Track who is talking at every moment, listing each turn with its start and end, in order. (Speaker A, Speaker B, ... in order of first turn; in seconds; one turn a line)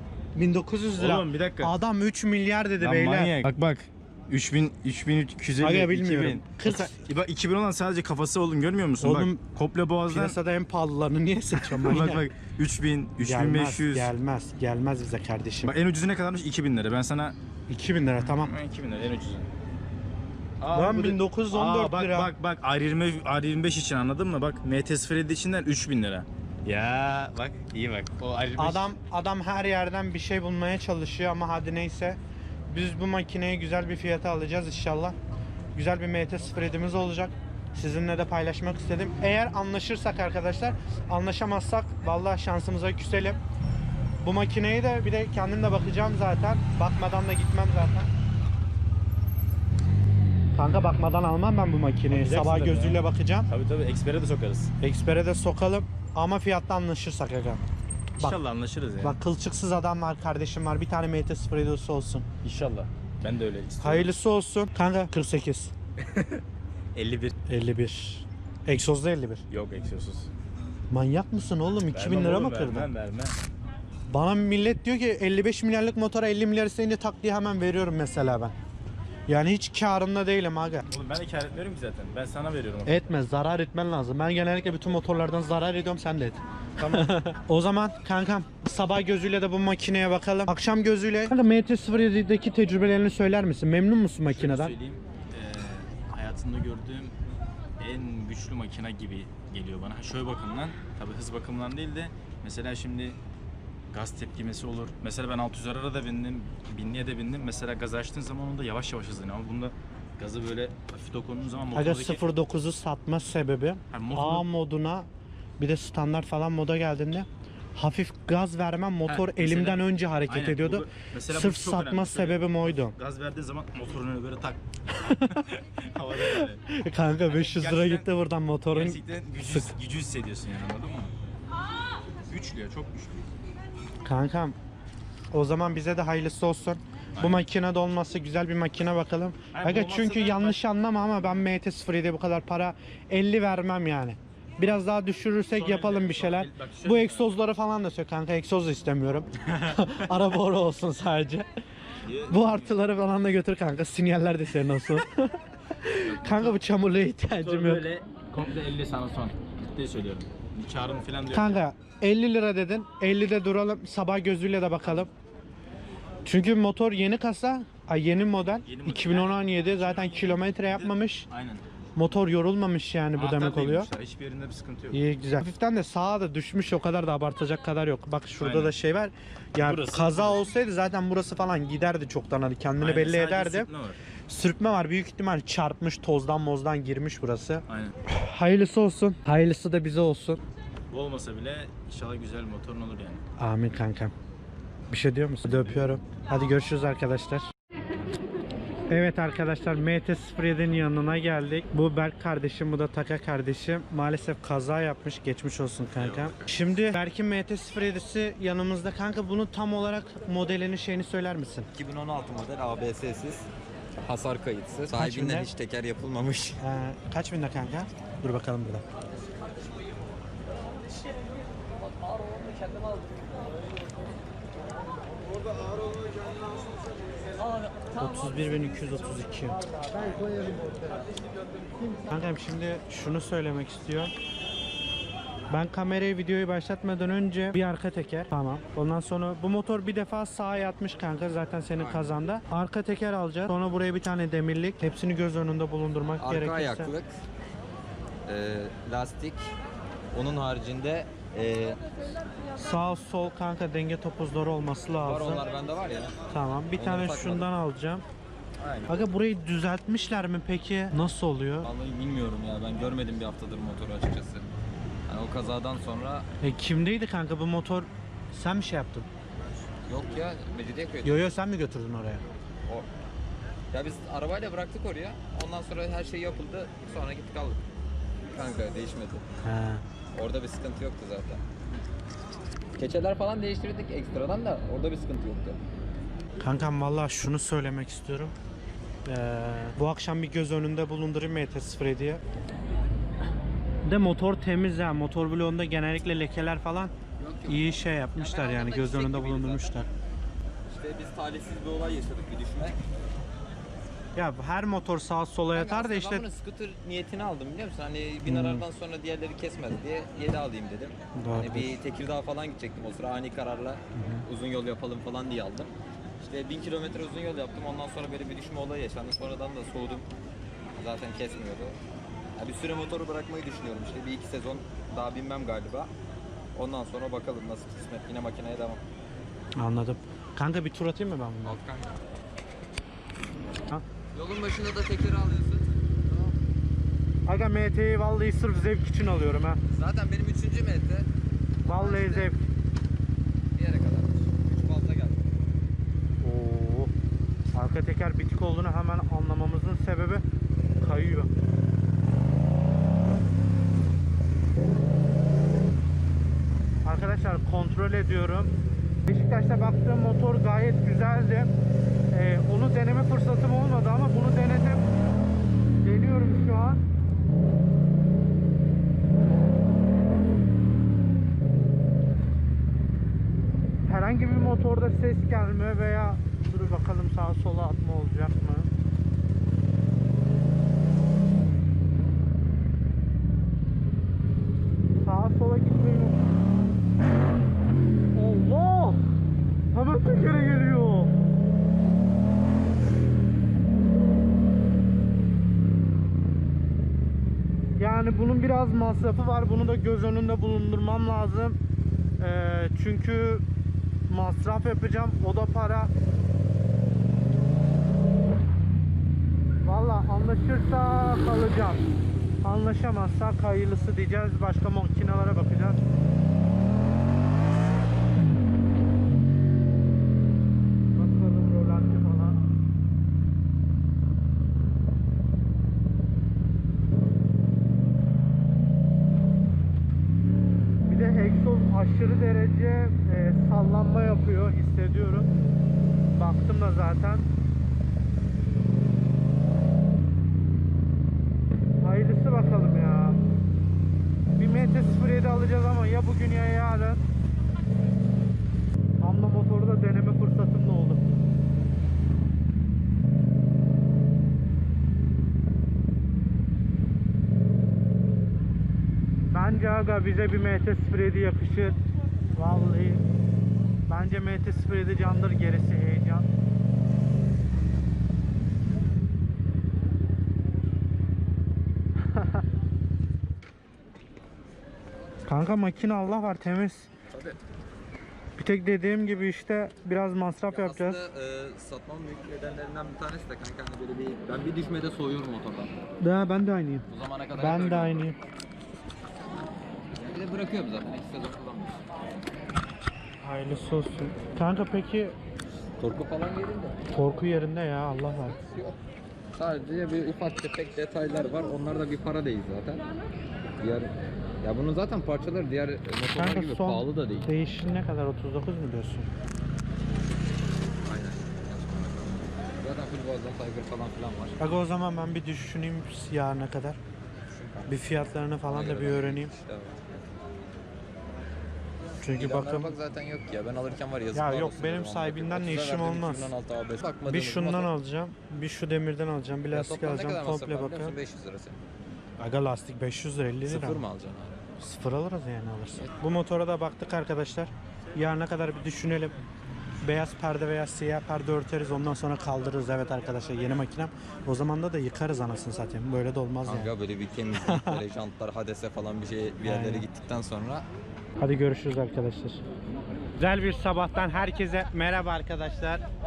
Speaker A: 0.3-3.3
Speaker B: 1.0-1.7
Speaker B: 2.8-10.4
Speaker A: 5.6-7.0
Speaker A: 9.0-9.4
Speaker A: 10.1-12.2
Speaker B: 11.5-14.1
Speaker A: 13.2-15.7
Speaker B: 15.6-17.3
Speaker A: 17.7-18.5
Speaker B: 18.2-19.5
Speaker B: 20.6-28.9
Speaker A: 20.7-22.3
Speaker A: 28.6-35.2
Speaker A: 35.7-43.4
Speaker A: 44.2-48.1
Speaker A: 50.5-53.5
Speaker B: 52.1-54.7
Speaker A: 54.8-57.6
Speaker B: 58.1-59.2
Speaker A: 59.0-62.2
Speaker B: 62.4-64.1
Speaker A: 63.8-65.7
Speaker B: 66.0-66.4
Speaker B: 66.9-67.4
Speaker A: 67.5-69.4
Speaker B: 69.5-70.3
Speaker A: 70.9-72.9
Speaker B: 71.9-73.3
Speaker A: 74.1-78.5
Speaker A: 79.3-80.8
Speaker B: 80.9-83.1
Speaker A: 82.8-94.7
Speaker B: 86.8-87.2
Speaker B: 94.2-97.1
Speaker B: 97.8-103.2
Speaker B: 103.9-112.2
Speaker A: 111.7-122.9
Speaker B: 113.9-114.5
Speaker B: 119.1-124.6
Speaker A: 124.9-125.4
Speaker B: 125.3-126.6
Speaker A: 126.2-129.7
Speaker B: 127.3-128.1
Speaker B: 128.7-131.1
Speaker B: 132.3-133.2
Speaker A: 134.0-134.6
Speaker A: 135.3-151.5
Speaker B: 137.2-137.4
Speaker B: 139.5-140.6
Speaker B: 145.5-147.3
Speaker B: 149.5-149.8
Speaker B: 152.0-152.8
Speaker A: 152.3-157.8
Speaker B: 156.0-156.6
Speaker B: 157.4-161.6
Speaker A: 161.3-165.1
Speaker A: 166.2-171.3
Speaker B: 168.6-171.6
Speaker A: 171.9-173.9
Speaker B: 173.1-175.0
Speaker A: 174.9-183.7
Speaker B: 178.4-178.8
Speaker B: 179.6-180.5
Speaker B: 182.8-184.0
Speaker A: 184.3-190.4
Speaker B: 187.7-187.9
Speaker B: 190.9-193.2
Speaker A: 193.4-194.1
Speaker A: 194.9-197.5
Speaker A: 198.9-211.7
Speaker B: 206.0-206.6
Speaker C: 211.7-213.5
Speaker C: 214.0-216.6
Speaker A: 214.9-215.5
Speaker A: 216.6-218.8
Speaker A: 227.9-229.6
Speaker A: 232.1-234.1
Speaker A: 235.5-246.9
Speaker C: 241.8-242.1
Speaker C: 246.2-247.1
Speaker C: 248.2-249.5
Speaker C: 250.1-251.8
Speaker A: 252.6-255.4
Speaker C: 255.0-256.1
Speaker A: 256.3-258.0
Speaker C: 256.8-257.5
Speaker C: 258.6-259.0
Speaker A: 258.9-261.7
Speaker C: 261.6-264.5
Speaker C: 265.1-266.3
Speaker A: 266.4-269.1
Speaker C: 269.9-271.3
Speaker A: 271.0-272.2
Speaker C: 273.7-277.6
Speaker C: 278.3-279.2
Speaker A: 279.4-279.8
Speaker C: 280.1-281.4
Speaker C: 282.8-285.6
Speaker A: 286.4-288.3
Speaker A: 289.0-292.2
Speaker A: 293.9-296.9
Speaker C: 297.2-299.8
Speaker A: 297.4-299.9
Speaker C: 300.7-302.8
Speaker A: 304.1-306.2
Speaker C: 305.5-320.1
Speaker A: 308.2-308.6
Speaker A: 311.1-311.8
Speaker A: 313.9-314.2
Speaker C: 320.7-321.8
Speaker C: 322.4-325.9
Speaker C: 326.5-328.8
Speaker A: 329.6-331.6
Speaker C: 331.4-332.0
Speaker C: 334.1-336.3
Speaker A: 337.2-339.6
Speaker C: 339.7-341.1
Speaker C: 341.6-342.3
Speaker A: 341.6-342.4
Speaker C: 343.5-345.2
Speaker A: 346.2-346.9
Speaker A: 347.5-350.2
Speaker A: 350.8-351.3
Speaker A: 356.8-358.5
Speaker A: 359.1-361.5
Speaker A: 362.1-364.9
Speaker A: 365.8-366.8
Speaker A: 373.9-378.7
Speaker A: 385.0-386.3
Speaker A: 388.1-389.1
Speaker A: 389.7-391.1
Speaker A: 397.8-401.6
Speaker A: 402.2-403.4
Speaker A: 404.1-405.9
Speaker A: 409.6-411.9
Speaker A: 412.4-415.8
Speaker A: 420.9-422.4
Speaker A: 430.9-435.3
Speaker A: 436.1-437.3
Speaker A: 441.8-443.2
Speaker A: 444.4-447.0
Speaker A: 449.0-451.3
Speaker A: 459.3-461.8
Speaker A: 462.3-463.0
Speaker A: 463.9-466.2
Speaker A: 475.2-476.9
Speaker C: 477.1-477.4
Speaker A: 478.4-481.0
Speaker C: 480.5-485.7
Speaker A: 486.0-486.9
Speaker C: 486.9-488.1
Speaker A: 487.4-488.2
Speaker C: 490.0-491.8
Speaker A: 493.2-495.1
Speaker C: 495.8-496.8
Speaker A: 496.9-498.4
Speaker C: 498.2-498.8
Speaker C: 499.3-502.9
Speaker C: 503.6-507.3
Speaker A: 506.1-509.1
Speaker C: 510.8-514.4
Speaker A: 514.4-516.8
Speaker C: 517.3-520.0
Speaker A: 517.7-519.3
Speaker A: 522.0-522.8
Speaker C: 522.1-527.7
Speaker A: 524.1-526.3
Speaker A: 527.0-530.9
Speaker C: 529.5-531.6
Speaker A: 532.2-533.8
Speaker C: 533.5-534.4
Speaker A: 534.6-539.1
Speaker A: 539.8-546.7
Speaker C: 546.4-550.6
Speaker A: 547.3-547.8
Speaker A: 549.4-549.9
Speaker A: 551.2-552.4
Speaker A: 553.2-555.8